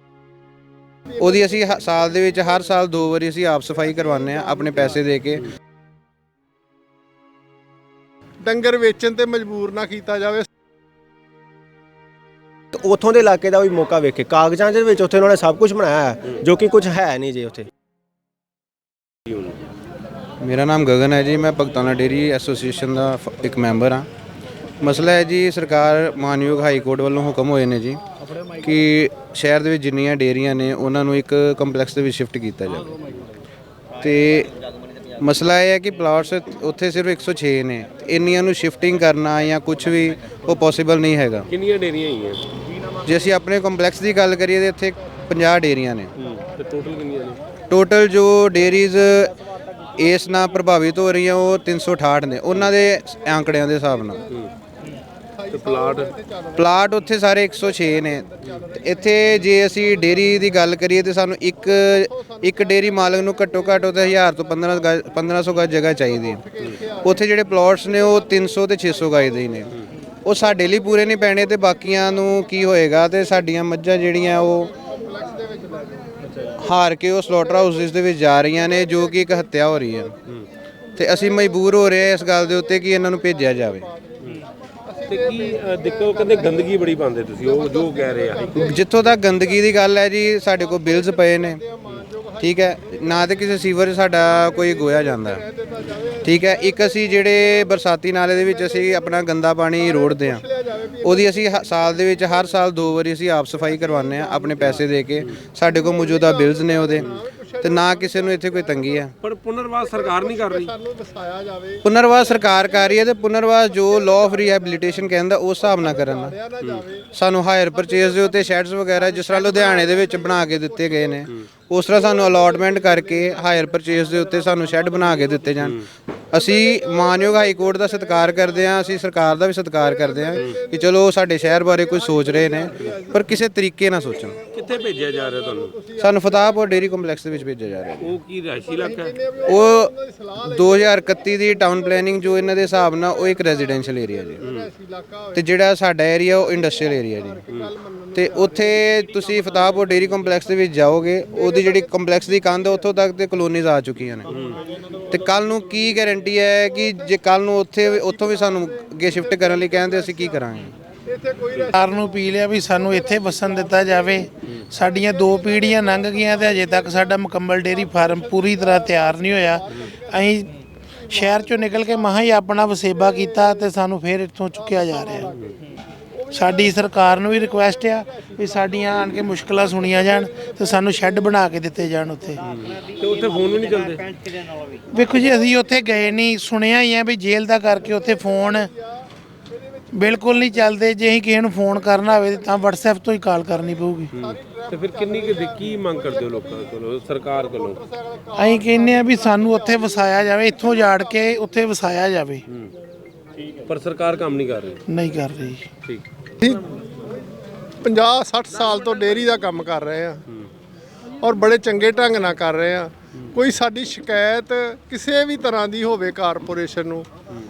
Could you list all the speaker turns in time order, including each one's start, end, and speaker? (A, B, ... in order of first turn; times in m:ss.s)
0:01.2-0:05.5 A
0:08.4-0:10.5 B
0:12.7-0:17.7 C
0:20.4-0:24.1 A
0:24.8-0:28.0 A
0:28.6-0:33.1 A
0:34.0-0:34.5 A
0:35.2-0:41.5 A
0:41.5-0:42.5 D
0:43.0-0:46.1 A
0:46.2-0:47.4 D
0:47.7-0:49.4 A
0:50.0-0:54.3 A
0:55.4-0:56.5 B
0:55.5-0:56.2 D
0:56.6-1:06.5 A
1:06.6-1:07.1 B
1:07.0-1:14.7 A
1:14.8-1:16.1 B
1:16.6-1:20.2 A
1:21.0-1:23.9 A
1:24.9-1:26.7 B
1:25.1-1:28.7 D
1:27.4-1:28.9 B
1:28.5-1:31.6 A
1:30.7-1:32.4 B
1:32.4-1:35.4 A
1:34.4-1:36.5 B
1:36.2-1:40.4 A
1:38.7-1:39.1 B
1:39.8-1:41.4 B
1:41.0-1:47.1 A
1:45.8-1:49.0 B
1:47.6-1:49.1 A
1:49.2-1:50.7 D
1:49.9-1:51.8 B
1:51.8-1:56.4 A
1:53.8-1:54.9 B
1:55.7-1:57.1 B
1:56.6-1:56.8 D
1:57.1-2:14.4 A
1:57.8-1:58.5 B
1:59.0-2:01.3 B
2:02.0-2:05.4 B
2:06.4-2:08.8 B
2:09.8-2:10.8 B
2:11.5-2:13.2 B
2:14.5-2:15.8 D
2:15.2-2:16.6 B
2:16.0-2:18.2 A
2:18.0-2:19.2 D
2:18.8-2:20.9 B
2:19.5-2:24.4 A
2:21.7-2:25.4 B
2:24.4-2:24.7 D
2:25.4-2:27.4 A
2:27.1-2:29.4 B
2:28.2-2:34.3 A
2:31.3-2:31.9 B
2:35.1-2:40.7 A
2:37.8-2:40.4 B
2:41.1-2:42.2 B
2:41.7-2:50.5 E
2:42.7-2:44.1 B
2:45.0-2:47.2 B
2:47.9-2:50.1 B
2:51.1-2:55.3 E
2:55.0-2:55.3 B
2:56.3-3:02.4 E
3:00.4-3:00.9 B
3:02.4-3:04.2 D
3:04.9-3:08.7 E
3:09.9-3:14.1 E
3:14.1-3:17.8 D
3:18.4-3:22.4 E
3:22.5-3:22.7 D
3:23.7-3:24.8 D
3:24.9-3:25.7 E
3:26.4-3:26.7 B
3:27.8-3:30.2 B
3:31.2-3:37.1 B